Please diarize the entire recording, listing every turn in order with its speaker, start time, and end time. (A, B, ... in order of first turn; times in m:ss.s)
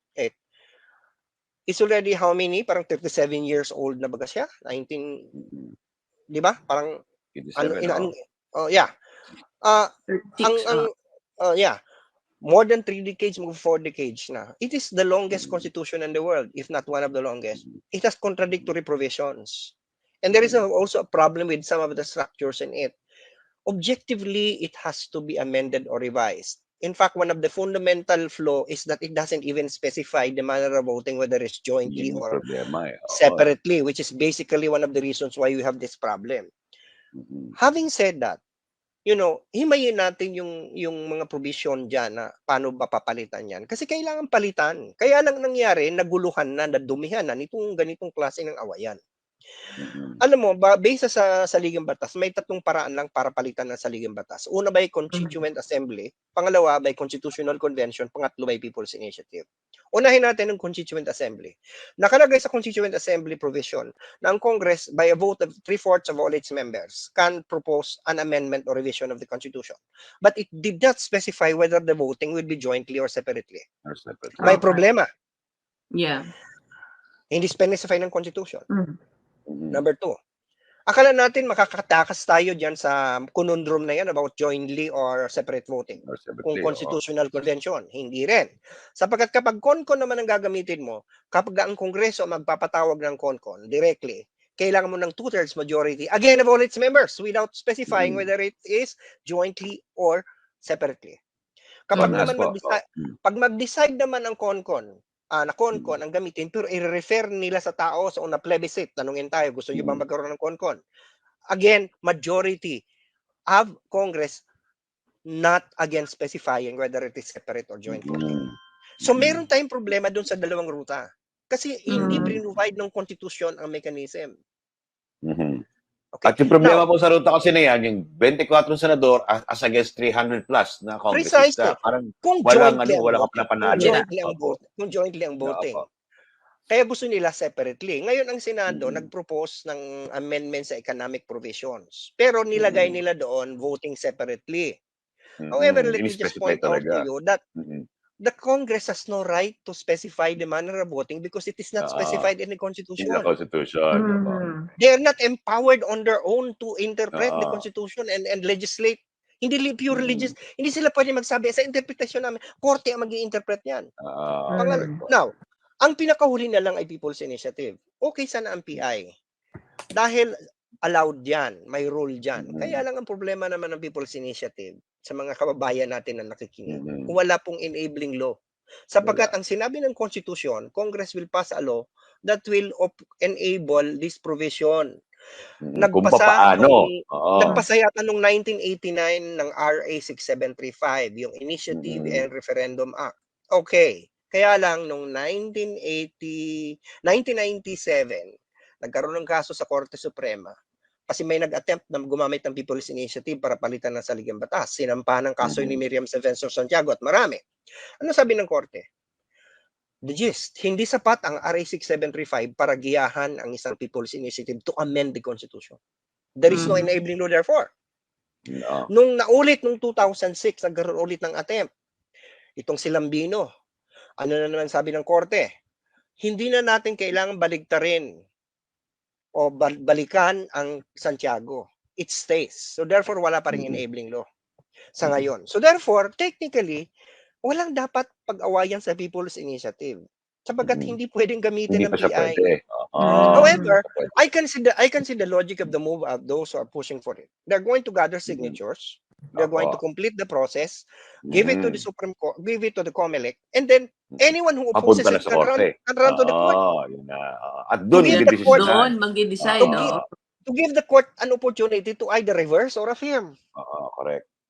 0:01.7-0:05.2 A
0:05.4-0:05.7 B
0:06.3-0:07.0 A
0:07.3-0:08.1 B
0:07.6-0:08.9 A
0:09.6-0:09.9 A
0:10.1-0:10.9 C
0:10.4-0:10.9 A
0:11.4-0:11.8 A
0:12.4-0:22.9 A
0:15.3-0:15.7 B
0:20.3-0:20.6 B
0:23.6-0:32.4 A
0:31.8-0:33.5 B
0:33.1-0:36.5 A
0:37.2-0:37.5 B
0:37.6-0:38.4 A
0:39.0-0:49.0 A
0:49.8-0:50.2 B
0:50.2-1:13.6 A
0:55.1-0:55.4 C
1:13.8-1:14.6 B
1:14.4-1:15.0 A
1:14.4-1:14.8 C
1:16.0-1:16.3 C
1:17.3-1:18.6 A
1:18.7-1:19.0 C
1:19.5-1:19.8 B
1:19.7-1:20.2 A
1:20.9-1:41.2 A
1:26.0-1:27.0 B
1:37.9-1:38.2 B
1:41.9-1:50.8 A
1:41.9-1:42.3 C
1:42.0-1:43.1 B
1:49.7-1:50.0 B
1:51.5-1:52.8 A
1:53.5-1:54.4 A
1:55.3-1:58.4 A
1:57.9-1:59.4 B
1:59.0-2:04.3 A
2:01.9-2:02.4 C
2:05.2-2:05.6 B
2:06.1-2:06.8 A
2:06.2-2:14.6 B
2:11.1-2:15.8 A
2:13.7-2:14.0 C
2:15.4-2:15.8 B
2:16.7-2:24.8 A
2:18.7-2:19.1 B
2:22.5-2:23.0 B
2:25.4-2:27.0 B
2:25.5-2:27.4 A
2:27.6-2:27.8 B
2:28.2-2:33.3 A
2:31.8-2:32.3 B
2:33.0-2:34.5 B
2:33.9-2:34.7 C
2:34.8-2:43.8 A
2:37.1-2:37.6 B
2:39.9-2:40.3 B
2:44.0-2:44.8 B
2:44.5-2:45.0 C
2:44.6-2:45.3 A
2:45.8-2:49.1 A
2:49.9-2:50.3 A
2:50.8-2:58.3 A
2:52.4-2:52.8 B
2:56.7-2:57.1 B
2:58.9-3:04.9 A
2:59.0-2:59.3 B
3:05.6-3:07.6 B
3:05.8-3:20.5 A
3:11.7-3:12.2 B
3:21.1-3:27.4 A
3:25.4-3:25.8 B
3:28.0-3:28.8 A
3:30.0-3:35.8 A
3:36.4-3:37.7 A
3:36.5-3:36.9 C
3:36.5-3:36.8 B
3:38.5-3:38.9 B
3:38.9-3:41.7 A
3:42.6-3:43.4 A
3:44.2-3:45.5 A
3:46.2-3:48.1 A
3:49.4-3:54.2 A
3:53.5-3:53.8 B
3:55.0-3:56.8 A
3:57.4-4:02.4 A
4:00.6-4:01.0 B
4:01.7-4:04.1 B
4:03.0-4:03.7 C
4:03.3-4:16.6 A
4:08.3-4:08.6 B
4:09.4-4:09.8 B
4:11.2-4:11.8 B
4:14.1-4:20.0 B
4:17.9-4:18.9 A
4:18.0-4:20.0 C
4:19.6-4:23.3 A
4:23.6-4:24.2 B